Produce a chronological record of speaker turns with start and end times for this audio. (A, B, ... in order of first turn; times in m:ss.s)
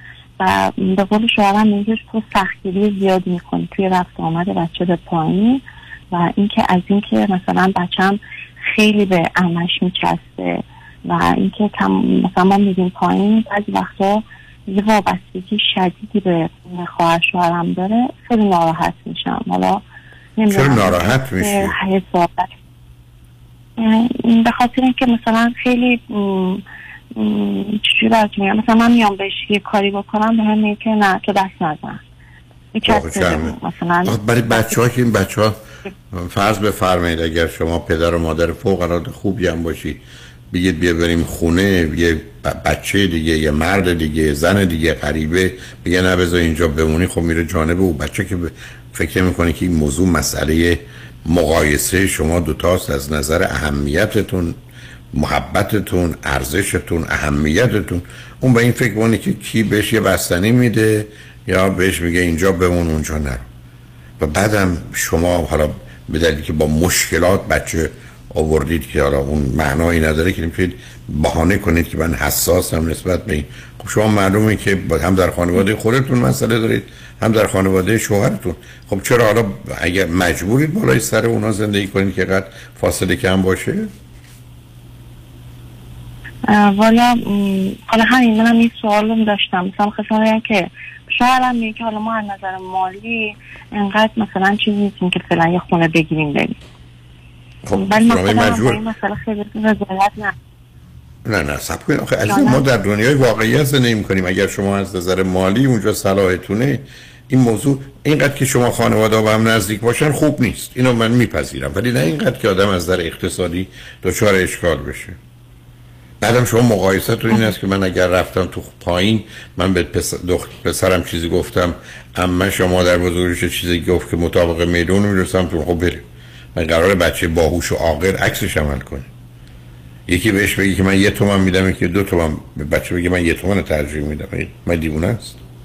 0:00.4-0:19.8 A
0:20.4-0:22.5 A
0:20.5-0:21.7 B
0:23.8-0:26.6 A
0:27.2-0:32.0 A
0:32.7-0:34.8 A
0:32.8-0:33.5 B
0:34.0-0:35.6 B
0:36.1-0:54.6 B
0:55.1-1:03.5 B
1:04.2-1:23.9 B
1:26.4-1:36.6 A
1:37.6-1:38.8 B
1:37.7-1:40.3 A
1:41.2-1:55.2 B
1:42.3-1:42.6 A
1:56.2-2:06.0 B
2:06.5-2:09.1 B
2:10.1-2:15.4 B